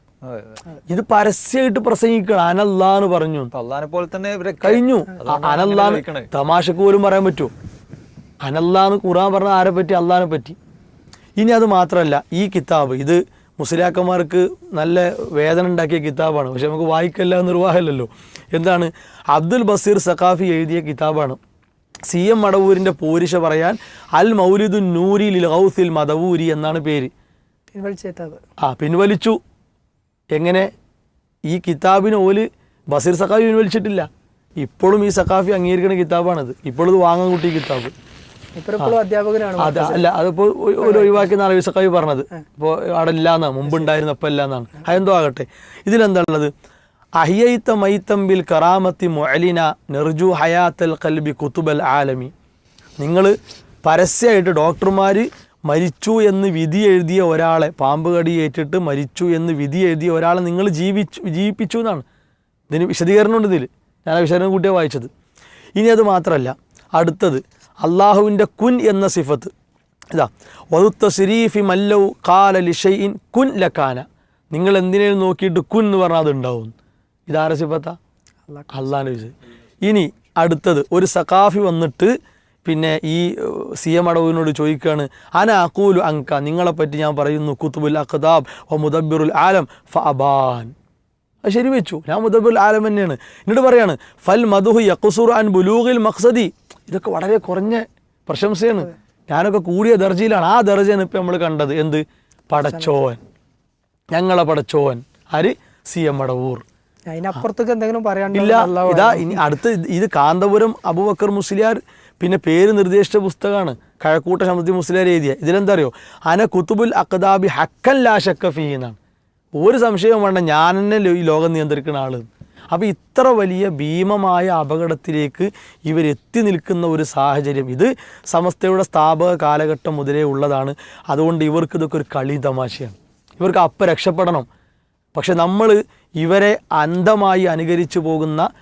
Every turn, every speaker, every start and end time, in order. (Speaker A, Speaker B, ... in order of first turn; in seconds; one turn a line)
Speaker A: 0.2-0.6
Speaker B: 0.9-3.5
Speaker A: 3.5-6.3
Speaker B: 4.6-7.5
Speaker B: 8.4-10.6
Speaker B: 11.4-21.4
Speaker B: 22.1-27.1
Speaker C: 27.7-28.4
Speaker B: 28.6-29.4
Speaker B: 30.3-30.7
Speaker B: 31.5-34.1
Speaker B: 34.6-37.9
Speaker C: 38.6-40.1
Speaker B: 39.6-46.5
Speaker C: 40.8-41.3
Speaker B: 47.2-52.3
Speaker B: 53.0-62.0
Speaker B: 62.7-65.1
Speaker B: 65.8-69.5
Speaker B: 70.1-76.7
Speaker B: 77.3-78.0
Speaker B: 78.7-82.1
Speaker B: 82.6-90.7
Speaker B: 91.4-103.2
Speaker C: 102.6-102.9
Speaker B: 104.1-106.6
Speaker C: 107.1-109.5
Speaker B: 108.3-119.0
Speaker B: 119.6-134.5
Speaker B: 135.1-138.5